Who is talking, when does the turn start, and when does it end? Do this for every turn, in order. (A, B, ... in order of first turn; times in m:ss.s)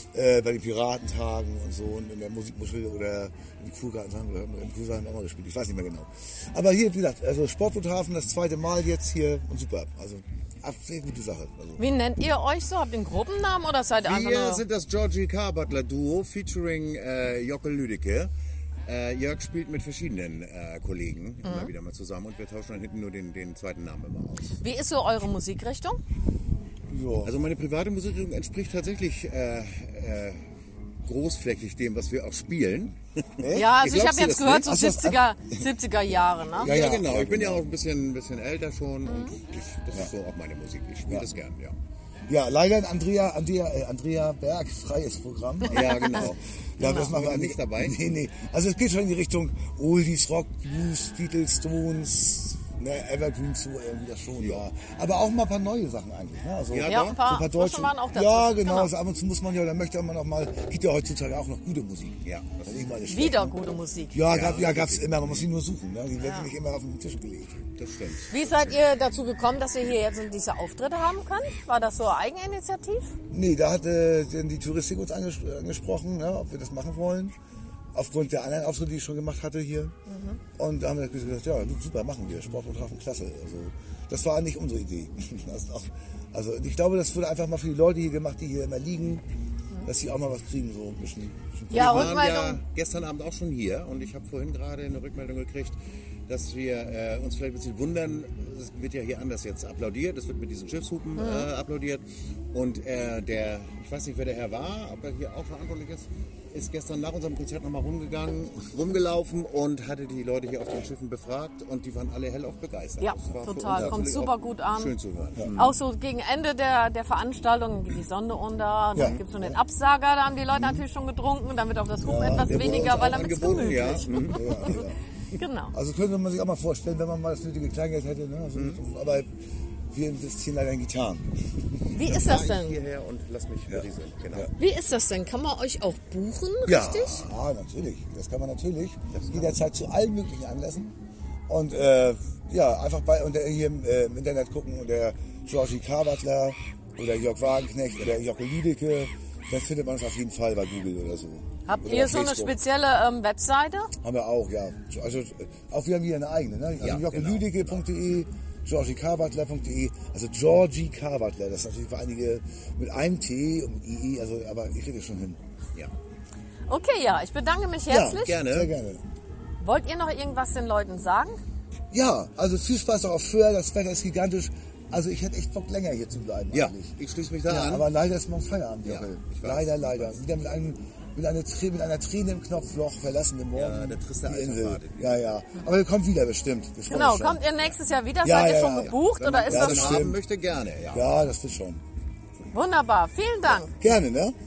0:00.1-0:11.8 A
0:11.8-0:14.6 B
0:14.0-0:18.3 C
0:18.9-0:24.6 C
0:21.4-0:21.7 B
0:24.6-0:26.0 B
0:26.9-0:27.3 A
0:27.2-0:30.5 C
0:31.0-0:34.8 C
0:33.4-0:33.7 A
0:33.5-0:36.8 B
0:34.7-0:35.7 A
0:36.6-0:41.8 C
0:36.6-0:37.7 A
0:39.0-0:39.4 B
0:42.3-1:07.7 A
0:45.7-0:48.1 C
0:45.8-0:46.2 B
0:46.8-0:47.1 B
0:56.7-0:57.2 C
0:56.9-0:58.9 B
1:02.2-1:03.0 C
1:03.1-1:04.2 B
1:04.2-1:05.5 C
1:06.2-1:06.5 B
1:07.8-1:08.8 C
1:08.3-1:13.2 B
1:13.3-1:17.4 A
1:17.9-1:20.0 A
1:20.1-1:20.4 B
1:20.6-1:29.2 A
1:29.8-1:32.1 A
1:31.7-1:32.6 B
1:31.7-1:55.8 C
1:41.2-1:41.5 B
1:53.0-1:54.9 B
1:53.7-1:54.0 A
1:55.6-2:05.7 B
1:59.0-1:59.6 A
1:59.0-1:59.2 C
2:02.0-2:05.0 A
2:02.5-2:04.8 C
2:05.7-2:09.3 A
2:08.6-2:08.8 C
2:09.9-2:11.8 A
2:11.9-2:12.8 B
2:12.0-2:14.5 C
2:13.7-2:14.5 A
2:14.6-2:17.3 B
2:16.6-2:20.9 A
2:19.1-2:19.6 C
2:21.5-2:32.6 A
2:31.7-2:33.9 B
2:34.0-2:45.4 A
2:36.8-2:37.9 C
2:46.7-2:48.4 B
2:47.9-2:49.0 A
2:48.2-2:48.7 C
2:49.6-2:51.4 B
2:51.9-3:07.5 A
2:56.5-2:57.9 C
2:58.8-3:00.2 C
3:03.5-3:05.0 C
3:06.9-3:10.1 B
3:08.2-3:10.2 A
3:09.2-3:11.1 C
3:10.9-3:11.8 A
3:12.5-3:13.8 B
3:13.7-3:14.4 A